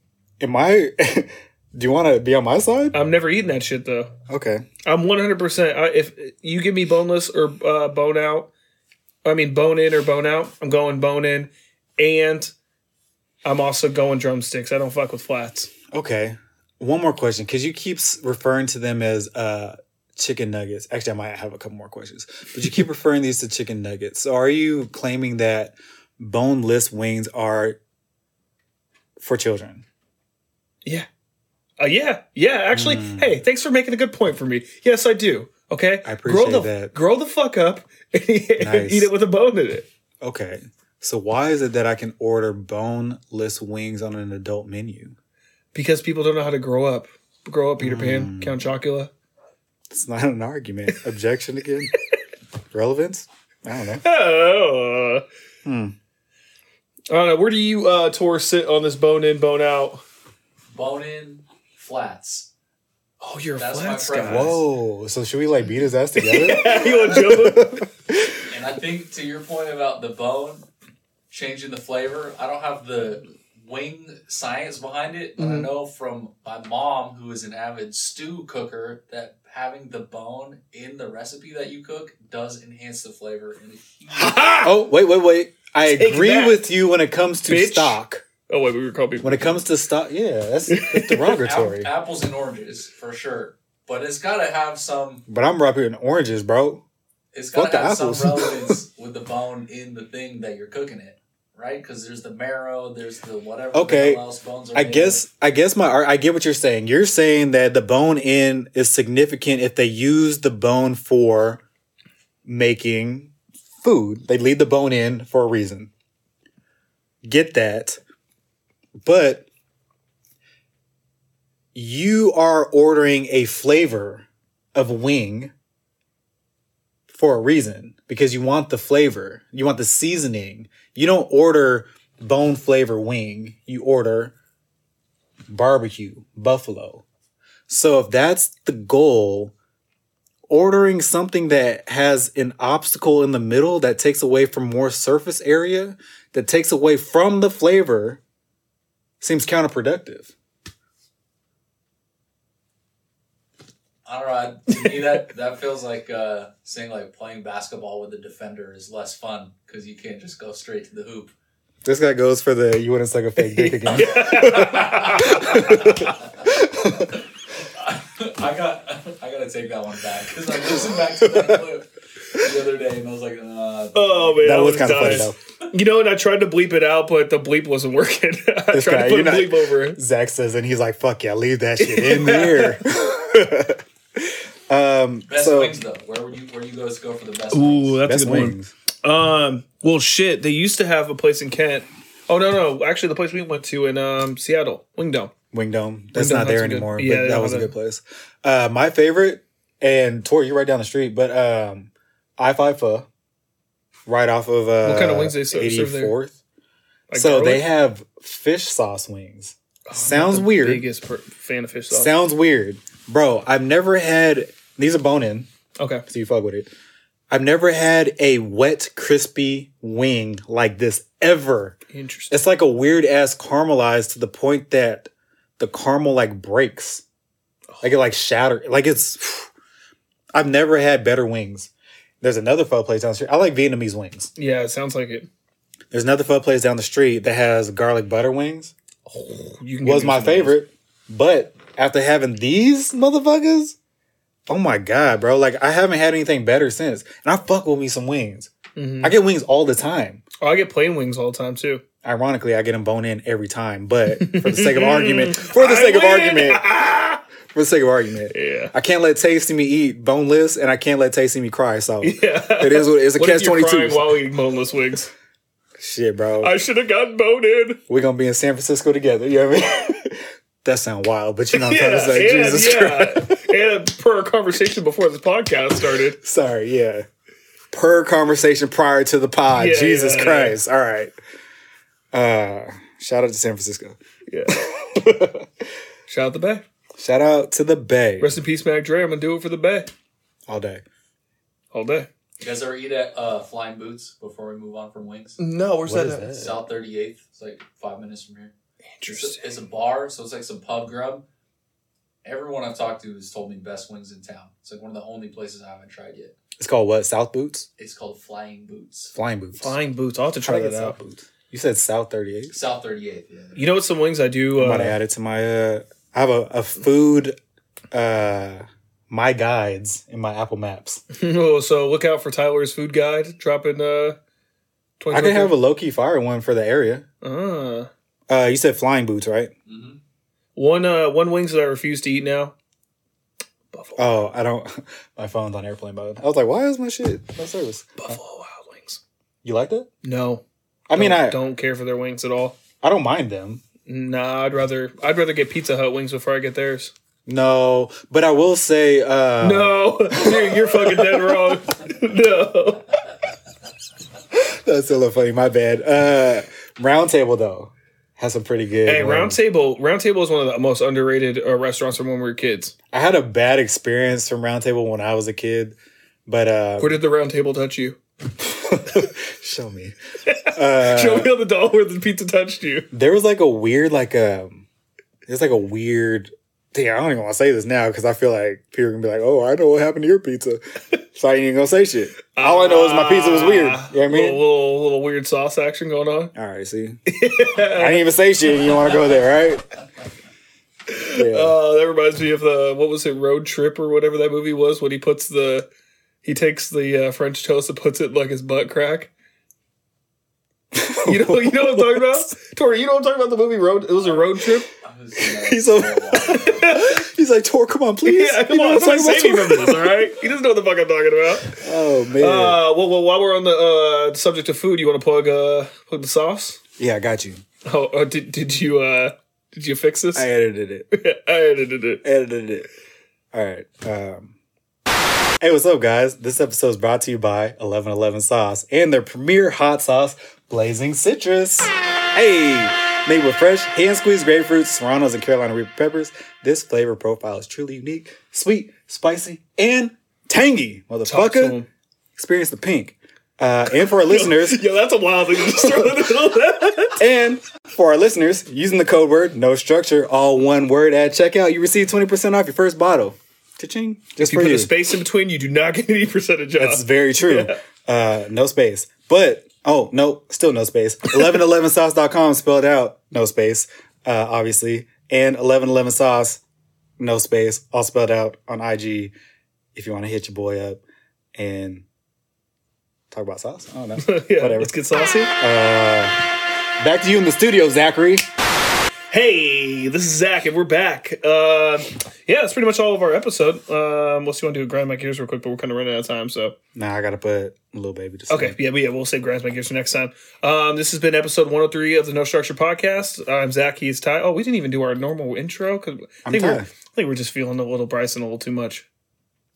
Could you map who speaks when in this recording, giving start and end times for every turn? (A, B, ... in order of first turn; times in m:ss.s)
0:00.4-0:03.0 A
0:02.9-0:04.1 B
0:04.3-0:04.7 A
0:04.8-0:08.5 B
0:09.2-0:12.5 B
0:13.4-0:15.7 B
0:15.9-0:27.8 A
0:29.2-0:29.8 A
0:31.8-0:39.9 B
0:32.7-0:33.4 A
0:36.0-0:36.9 A
0:38.6-0:39.1 A
0:40.2-0:45.2 A
0:45.7-0:49.1 B
0:47.8-0:48.7 A
0:49.9-0:51.9 A
0:52.7-0:54.0 A
0:54.0-0:55.2 B
0:55.6-0:55.9 A
0:57.1-1:00.0 B
1:00.7-1:02.5 C
1:03.2-1:04.6 B
1:03.6-1:04.6 C
1:04.2-1:08.3 A
1:06.2-1:07.8 B
1:08.5-1:10.7 C
1:11.3-1:24.6 C
1:15.4-1:15.7 B
1:24.2-1:24.7 B
1:24.6-1:28.2 A
1:25.8-1:26.6 B
1:27.5-1:29.6 B
1:29.2-1:31.9 A
1:30.7-1:31.4 B
1:31.3-1:35.2 C
1:35.3-1:36.8 A
1:37.3-1:45.2 C
1:37.6-1:38.8 A
1:43.7-1:44.2 A
1:44.8-1:51.6 A
1:52.4-1:55.9 A
1:57.2-1:58.0 A
1:59.0-1:59.5 A
2:01.7-2:05.5 A
2:07.1-2:14.3 A
2:15.5-2:17.0 A
2:17.7-2:19.5 A
2:20.5-2:28.2 A
2:29.2-2:30.3 A
2:34.1-2:41.3 C
2:41.8-2:47.1 A
2:43.4-2:46.0 B
2:43.9-2:46.1 C
2:47.8-2:55.3 C
2:51.2-2:51.6 A
2:54.0-3:00.0 B
2:54.4-2:55.4 A
2:58.7-3:05.8 A
3:01.8-3:02.8 B
3:05.3-3:08.0 C
3:07.5-3:15.3 B
3:08.0-3:08.7 A
3:15.5-3:23.1 A
3:16.2-3:17.7 B
3:24.1-3:26.4 A
3:24.8-3:26.2 B
3:27.1-3:27.6 B
3:27.1-3:30.8 A
3:29.9-3:32.1 B
3:31.9-3:35.5 A
3:35.8-3:36.0 B
3:36.1-3:36.7 A
3:37.3-3:41.8 A
3:41.9-3:42.4 B
3:42.3-3:47.0 A
3:47.7-3:48.0 B
3:47.8-3:49.5 A
3:50.3-3:51.7 A
3:52.2-3:54.3 A
3:54.4-3:55.3 B
3:55.9-3:58.7 A
3:59.1-4:00.6 B
3:59.8-4:03.8 A
4:04.5-4:10.2 A
4:08.8-4:09.1 B
4:10.4-4:11.8 B
4:12.0-4:16.6 A
4:14.2-4:17.2 B
4:17.5-4:24.2 A
4:18.3-4:18.7 B
4:22.0-4:25.1 B
4:25.8-4:26.6 A
4:26.4-4:27.8 B
4:27.9-4:33.5 A
4:31.5-4:36.2 B
4:36.2-4:37.1 A
4:37.7-4:41.1 A
4:39.5-4:40.6 B
4:42.1-4:44.0 A
4:44.5-4:45.4 A
4:46.1-4:46.6 B
4:47.0-4:48.4 A
4:48.2-4:49.9 B
4:50.5-4:50.8 A
4:51.7-4:52.1 B
4:52.4-4:55.4 C
4:55.4-4:56.3 B
4:55.8-4:56.6 A
4:56.3-4:58.5 C
4:59.0-4:59.4 B
4:59.1-5:01.2 C
5:02.2-5:06.4 C
5:06.6-5:07.7 A
5:07.8-5:09.1 C
5:09.1-5:09.8 A
5:09.6-5:11.0 B
5:10.4-5:12.6 A
5:12.5-5:13.6 C
5:13.6-5:15.0 B
5:14.6-5:17.4 A
5:17.9-5:21.0 A
5:21.1-5:24.2 B
5:25.0-5:25.6 B
5:25.1-5:27.0 A
5:27.2-5:27.9 B
5:28.3-5:29.5 A
5:29.7-5:30.0 C
5:30.6-5:32.6 B
5:33.7-5:34.3 B
5:34.0-5:38.2 A
5:38.0-5:39.0 B
5:39.4-5:39.9 A
5:40.0-5:42.6 B
5:40.9-5:41.4 A
5:42.8-5:43.6 A
5:43.9-5:46.9 B
5:47.3-5:51.0 A
5:49.4-5:53.0 B
5:54.3-5:59.4 A
5:58.8-6:02.7 B
6:02.9-6:07.0 A
6:06.8-6:08.0 B
6:08.5-6:10.0 A
6:10.3-6:12.9 B
6:10.5-6:11.3 A
6:12.9-6:14.6 A
6:15.3-6:24.4 A
6:22.4-6:26.3 B
6:26.4-6:27.0 A
6:27.1-6:28.0 B
6:27.7-6:29.6 A
6:30.9-6:35.7 B
6:31.1-6:31.6 A
6:36.2-6:39.1 B
6:40.7-6:42.3 A
6:41.0-6:44.7 B
6:44.0-6:46.8 C
6:45.4-6:50.1 A
6:46.2-6:47.0 B
6:48.0-6:51.7 B
6:51.5-6:52.6 A
6:52.2-6:56.6 B
6:56.8-6:57.4 A
6:57.6-7:00.3 B
7:00.2-7:00.9 A
7:00.9-7:02.0 B
7:02.0-7:02.7 A
7:03.3-7:04.3 A
7:05.4-7:21.6 A
7:21.0-7:21.7 B
7:22.2-7:24.6 A
7:23.7-7:27.0 B
7:27.0-7:34.7 A
7:34.2-7:37.6 B
7:36.6-7:46.4 A
7:47.0-7:49.1 A
7:49.8-7:50.8 A
7:51.4-7:51.8 A
7:53.1-7:54.7 A
7:54.0-7:55.3 B
7:55.4-7:56.1 A
7:56.8-7:58.2 A
7:59.1-8:06.6 B
8:06.8-8:08.6 A
8:08.3-8:18.9 B
8:16.2-8:16.7 A